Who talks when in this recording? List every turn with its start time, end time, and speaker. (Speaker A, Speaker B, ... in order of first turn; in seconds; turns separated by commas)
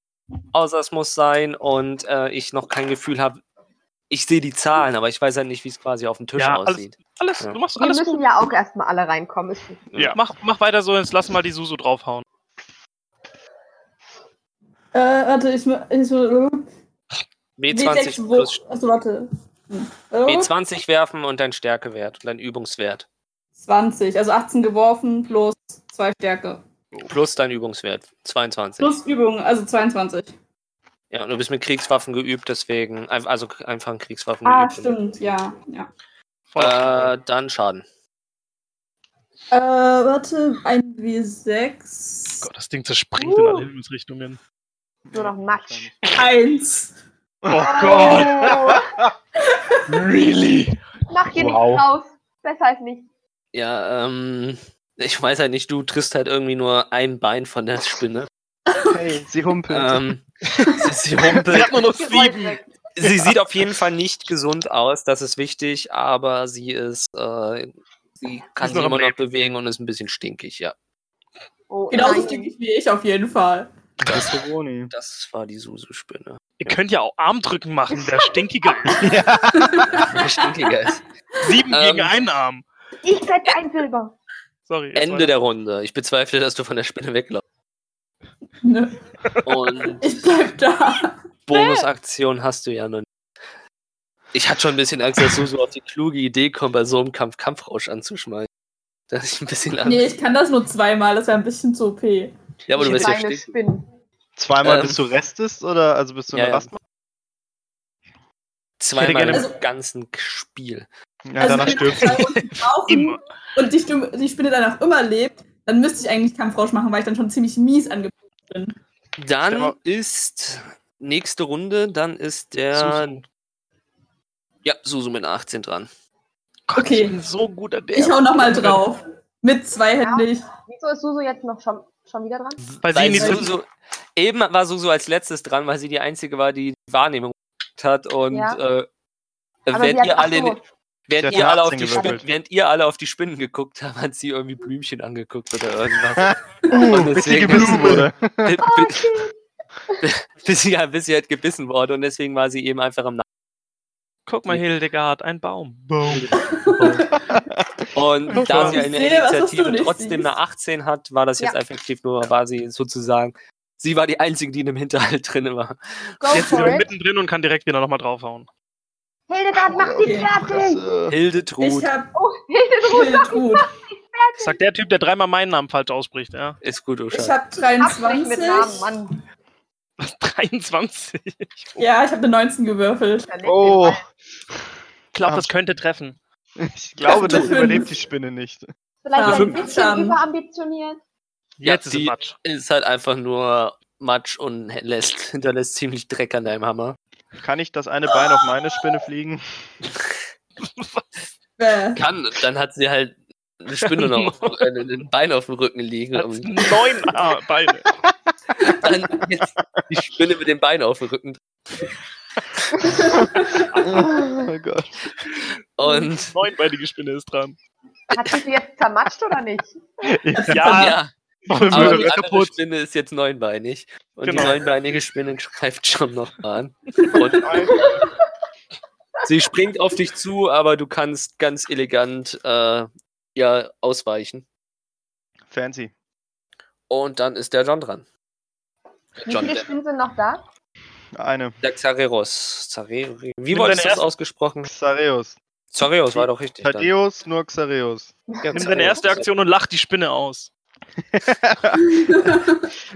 Speaker A: 0.5-3.4, Speaker A: 4.1-7.6, Speaker B: 6.4-8.4, Speaker C: 7.8-9.8, Speaker B: 10.0-12.3, Speaker D: 14.9-16.7, Speaker A: 17.6-18.6, Speaker D: 17.7-20.5, Speaker A: 20.3-23.1, Speaker D: 23.6-26.6, Speaker A: 27.1-29.0, Speaker D: 28.8-30.3, Speaker A: 31.1-35.0, Speaker D: 34.5-35.9, Speaker B: 36.5-37.1, Speaker A: 36.6-37.8, Speaker D: 39.5-42.5, Speaker B: 42.4-44.4, Speaker C: 43.2-43.7, Speaker E: 45.1-46.0, Speaker C: 45.1-45.9, Speaker D: 46.1-46.9, Speaker E: 47.5-49.1, Speaker B: 47.5-48.8, Speaker C: 47.6-48.9, Speaker D: 49.5-49.8, Speaker B: 49.9-50.8, Speaker C: 51.1-53.0, Speaker B: 51.4-51.8, Speaker A: 53.5-58.3, Speaker D: 58.7-59.1, Speaker E: 58.8-60.1, Speaker A: 59.7-62.0, Speaker B: 61.5-63.3, Speaker C: 61.9-62.7, Speaker A: 63.0-70.7, Speaker B: 68.6-69.1, Speaker C: 71.7-72.5, Speaker D: 71.9-73.7, Speaker E: 74.0-74.9, Speaker A: 74.1-74.4, Speaker A: 74.9-76.8, Speaker B: 76.6-79.1, Speaker E: 78.9-80.1, Speaker D: 79.5-81.0, Speaker A: 79.9-81.0, Speaker B: 81.4-82.7, Speaker A: 81.7-82.2, Speaker C: 83.0-84.1, Speaker B: 84.7-85.3, Speaker A: 85.0-87.4, Speaker D: 88.6-89.0, Speaker B: 89.3-89.5, Speaker A: 89.5-90.0, Speaker D: 89.9-91.2, Speaker A: 91.5-93.1, Speaker A: 94.3-98.5, Speaker A: 99.1-100.1, Speaker D: 99.8-102.3, Speaker A: 102.7-103.5, Speaker C: 102.8-103.9, Speaker E: 104.4-106.8, Speaker A: 104.6-105.0, Speaker A: 106.3-106.7, Speaker A: 108.8-110.9, Speaker B: 109.0-109.5, Speaker E: 111.3-112.2, Speaker D: 111.4-118.8, Speaker B: 111.5-113.2, Speaker A: 119.2-123.2, Speaker E: 119.5-119.8, Speaker B: 122.7-123.2, Speaker A: 124.6-125.9, Speaker B: 126.7-128.8, Speaker D: 126.8-127.2, Speaker D: 127.9-130.5, Speaker C: 130.0-132.6, Speaker A: 132.7-138.9, Speaker B: 132.8-133.5, Speaker D: 133.2-133.4, Speaker C: 138.3-138.6, Speaker A: 139.7-149.1, Speaker C: 139.7-140.6, Speaker E: 141.2-142.2, Speaker C: 141.3-142.2, Speaker E: 146.7-148.6, Speaker B: 147.6-148.0, Speaker C: 148.6-149.3, Speaker A: 150.0-153.2, Speaker B: 154.3-157.1, Speaker D: 156.4-157.1, Speaker E: 157.3-158.5, Speaker A: 157.9-165.8, Speaker B: 158.3-158.8, Speaker D: 158.5-160.3, Speaker C: 166.2-166.9, Speaker B: 166.3-168.5, Speaker C: 169.3-170.8, Speaker E: 169.5-171.2, Speaker D: 170.0-170.3, Speaker A: 171.1-171.9, Speaker D: 171.6-172.2, Speaker C: 172.2-174.6, Speaker D: 172.8-173.7, Speaker B: 174.4-176.6, Speaker A: 176.6-177.4, Speaker D: 177.1-178.9, Speaker C: 177.8-179.2, Speaker B: 180.0-181.8, Speaker D: 181.8-183.3, Speaker C: 183.2-184.0, Speaker E: 183.4-184.1, Speaker B: 185.1-186.2, Speaker E: 185.2-185.5, Speaker E: 186.6-188.7, Speaker D: 187.0-187.9, Speaker C: 189.0-191.0, Speaker D: 189.2-190.2, Speaker A: 189.3-189.5, Speaker B: 191.6-192.4, Speaker A: 191.6-197.0, Speaker E: 197.4-199.7, Speaker B: 200.6-201.1, Speaker D: 201.6-202.0, Speaker A: 202.0-206.7, Speaker B: 203.8-204.7, Speaker B: 206.2-207.9, Speaker A: 208.7-211.9, Speaker D: 212.9-213.7, Speaker E: 213.8-215.0, Speaker A: 215.8-216.4, Speaker B: 215.9-217.6, Speaker C: 218.1-219.8, Speaker E: 220.1-220.9, Speaker D: 220.4-220.9, Speaker B: 220.5-221.0, Speaker A: 220.7-221.1, Speaker E: 221.5-222.1, Speaker B: 221.5-222.5, Speaker A: 221.7-227.9, Speaker B: 224.2-224.6, Speaker E: 227.2-227.8, Speaker A: 229.2-234.4, Speaker E: 235.5-235.9, Speaker A: 236.9-238.1, Speaker A: 239.2-239.7, Speaker C: 239.2-240.4, Speaker E: 241.2-241.6, Speaker A: 241.6-244.7, Speaker B: 243.5-244.0, Speaker E: 244.7-245.4, Speaker A: 245.7-246.9, Speaker E: 246.1-248.1, Speaker C: 248.3-248.8, Speaker A: 248.4-249.3, Speaker B: 248.5-250.5, Speaker E: 251.1-252.1, Speaker D: 251.9-252.7